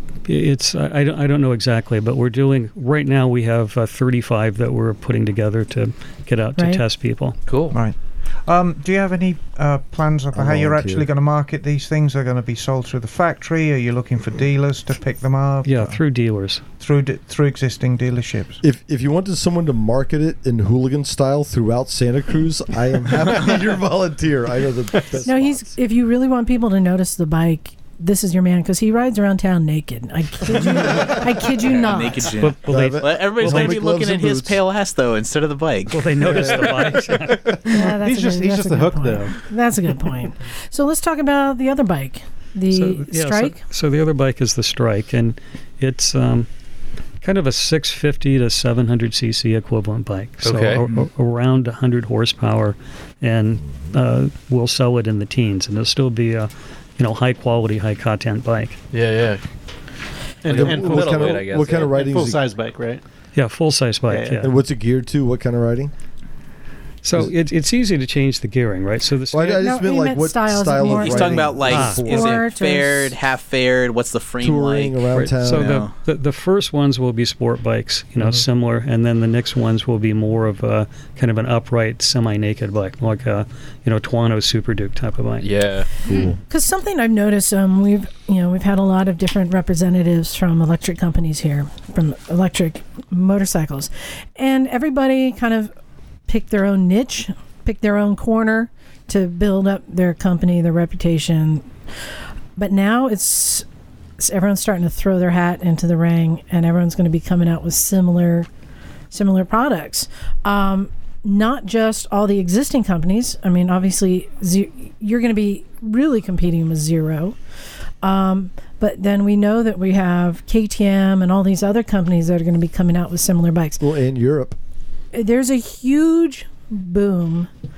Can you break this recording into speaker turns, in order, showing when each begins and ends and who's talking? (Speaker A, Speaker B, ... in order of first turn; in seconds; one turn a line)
Speaker A: 0.2-7.3
Speaker B: 6.6-6.8
Speaker C: 7.5-7.8
Speaker D: 7.7-16.0
Speaker E: 10.3-11.1
Speaker A: 15.6-16.6
Speaker D: 16.8-18.6
Speaker E: 18.6-25.7
Speaker B: 25.2-32.3
Speaker E: 30.8-31.1
Speaker F: 31.6-36.2
Speaker A: 32.4-33.9
Speaker E: 32.6-34.6
Speaker A: 35.9-37.7
Speaker G: 37.5-39.4
Speaker B: 37.6-43.6
Speaker A: 42.7-46.5
Speaker A: 47.2-58.8
Speaker C: 50.4-50.8
Speaker C: 58.9-59.4
Speaker C: 60.4-62.0
Speaker G: 60.4-63.0
Speaker E: 60.5-62.4
Speaker A: 63.3-64.5
Speaker G: 64.1-64.5
Speaker E: 64.4-65.9
Speaker A: 67.0-69.6
Speaker E: 69.3-72.4
Speaker B: 69.6-73.1
Speaker F: 70.8-75.9
Speaker A: 71.6-72.1
Speaker E: 74.4-75.8
Speaker A: 75.1-85.5
Speaker C: 85.4-85.9
Speaker E: 86.1-86.3
Speaker B: 86.5-95.7
Speaker B: 96.3-101.7
Speaker B: 102.6-103.6
Speaker B: 104.2-108.5
Speaker B: 109.1-117.3
Speaker B: 118.0-123.8
Speaker E: 123.8-124.6
Speaker B: 125.1-127.5